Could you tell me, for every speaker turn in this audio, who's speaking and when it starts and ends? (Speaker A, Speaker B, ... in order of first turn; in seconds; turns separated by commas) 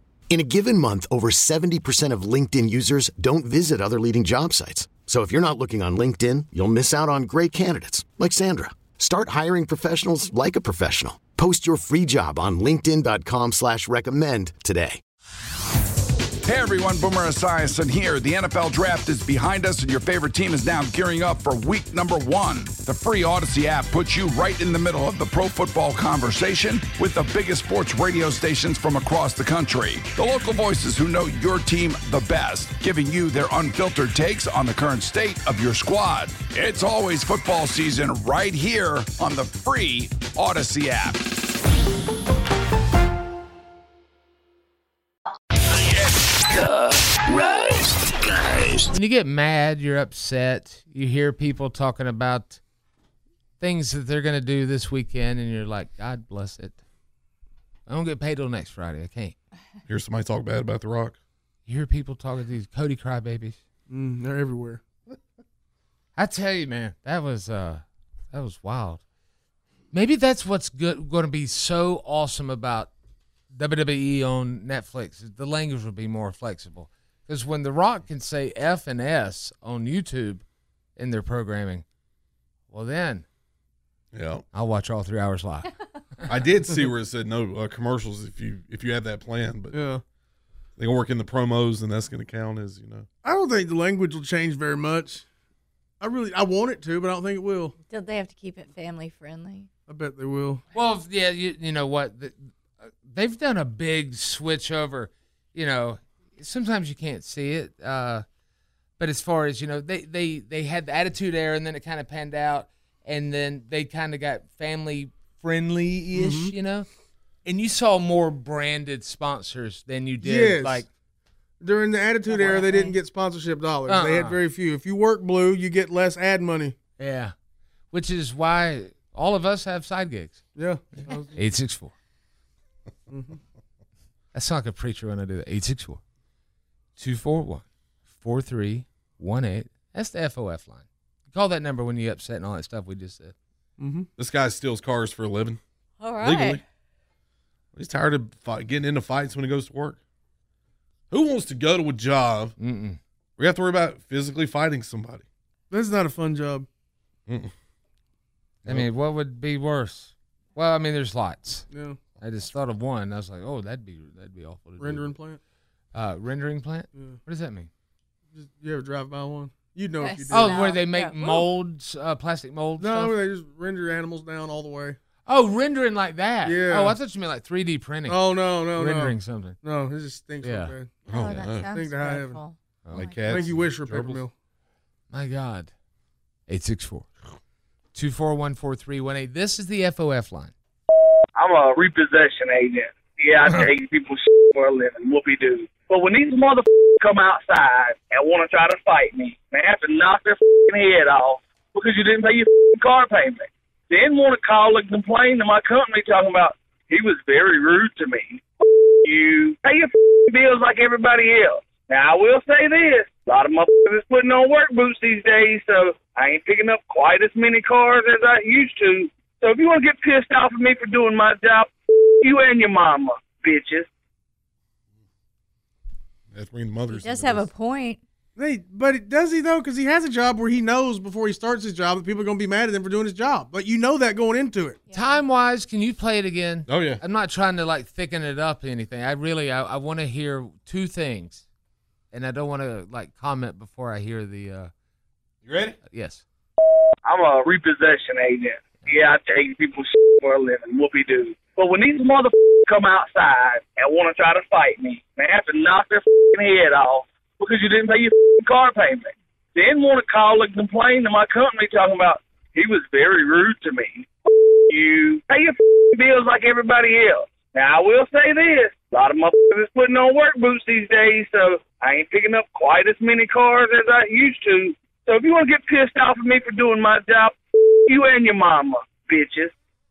Speaker A: 0.3-15.0, Speaker B: 16.4-41.2, Speaker C: 45.8-48.9, Speaker D: 48.9-52.6, Speaker D: 53.6-56.8, Speaker D: 57.9-59.4, Speaker E: 59.9-61.2, Speaker D: 61.7-63.6, Speaker F: 63.9-64.8, Speaker D: 66.2-69.0, Speaker D: 69.9-72.9, Speaker D: 73.5-80.4, Speaker D: 81.0-81.8, Speaker D: 82.7-83.2, Speaker E: 84.1-84.4, Speaker D: 84.5-85.7, Speaker E: 86.3-89.7, Speaker F: 89.7-90.0, Speaker E: 90.8-93.0, Speaker F: 93.2-95.2, Speaker F: 96.0-97.7, Speaker G: 97.9-99.7, Speaker F: 99.9-100.6, Speaker D: 100.7-108.2, Speaker D: 109.0-116.9, Speaker F: 116.1-116.5, Speaker D: 117.4-120.9, Speaker F: 120.2-120.8, Speaker F: 121.6-126.7, Speaker G: 122.3-122.9, Speaker D: 123.9-124.3, Speaker D: 127.0-127.3, Speaker D: 127.9-130.4, Speaker F: 130.6-131.3, Speaker D: 131.3-131.9, Speaker F: 133.1-133.4, Speaker D: 134.3-136.0, Speaker D: 137.0-143.3, Speaker F: 143.8-144.1, Speaker E: 144.2-145.6, Speaker G: 146.0-146.6, Speaker E: 146.2-146.6, Speaker E: 147.8-150.0, Speaker E: 151.1-152.5, Speaker D: 152.6-153.0, Speaker E: 153.4-155.2, Speaker F: 155.7-156.7, Speaker D: 158.6-165.1, Speaker F: 161.7-162.0, Speaker F: 164.8-165.4, Speaker D: 165.9-167.7, Speaker F: 168.3-170.8, Speaker G: 170.0-171.4, Speaker D: 170.3-173.2, Speaker F: 172.8-175.0, Speaker D: 175.2-178.2, Speaker F: 176.4-176.9, Speaker F: 178.1-181.0, Speaker D: 178.7-179.6, Speaker D: 180.4-180.7, Speaker G: 181.1-183.4, Speaker E: 181.1-181.7, Speaker F: 181.7-182.4, Speaker D: 182.8-183.2, Speaker E: 182.9-184.2, Speaker F: 183.3-184.3, Speaker D: 185.1-185.7, Speaker D: 186.5-187.1, Speaker D: 187.9-190.5, Speaker H: 191.3-208.4, Speaker H: 209.0-223.9, Speaker E: 226.3-227.5, Speaker G: 226.9-228.0, Speaker F: 228.4-234.8, Speaker G: 234.9-235.2, Speaker D: 234.9-241.4, Speaker E: 236.7-237.0, Speaker D: 242.1-244.7, Speaker E: 245.4-245.8, Speaker D: 245.9-246.2, Speaker H: 247.0-264.1, Speaker H: 264.7-279.5